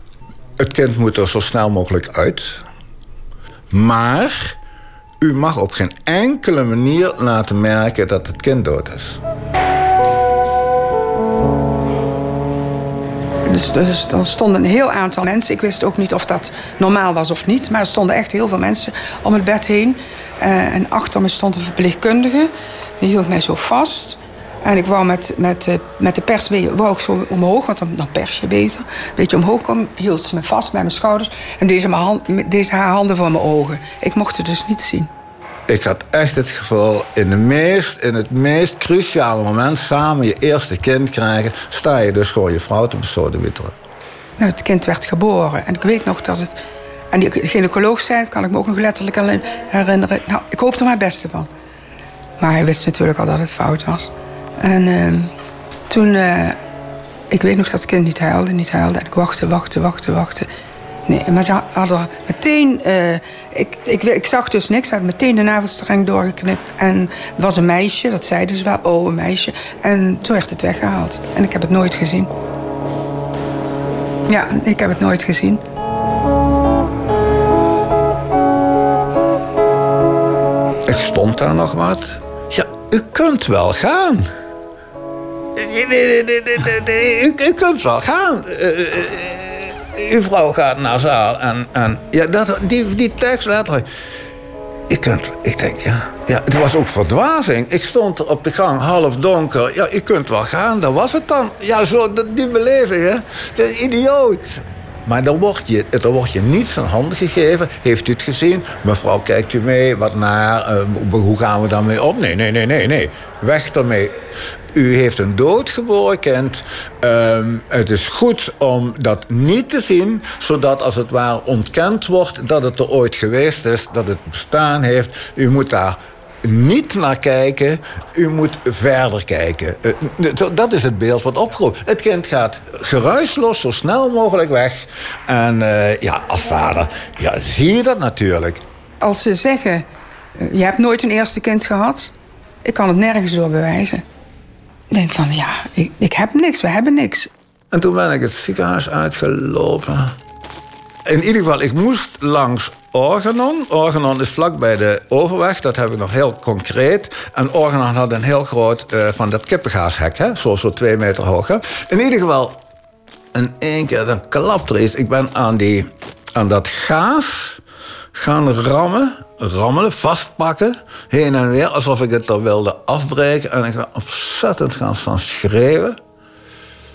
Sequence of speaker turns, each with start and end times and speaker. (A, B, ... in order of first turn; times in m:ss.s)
0:00.6-0:02.6 A
0:03.7-0:04.6 A
0:05.2-0:09.2 A
0:13.5-0:35.1 B
0:35.7-0:43.7 A
0:44.4-0:46.6 B
0:47.1-0:51.5 B
0:52.4-0:55.3 B
0:55.9-0:56.6 B
0:57.3-1:00.5 B
1:01.1-1:12.3 B
1:14.3-1:15.6 B
1:20.8-1:24.3 A
1:25.6-1:33.8 A
1:34.9-1:54.2 A
1:54.7-2:18.6 A
2:19.0-2:19.8 B
2:20.4-2:22.1 B
2:22.6-2:24.0 B
2:24.9-2:27.3 B
2:27.7-2:30.2 A
2:31.0-2:42.6 A
2:43.3-2:47.6 A
2:48.1-2:56.0 A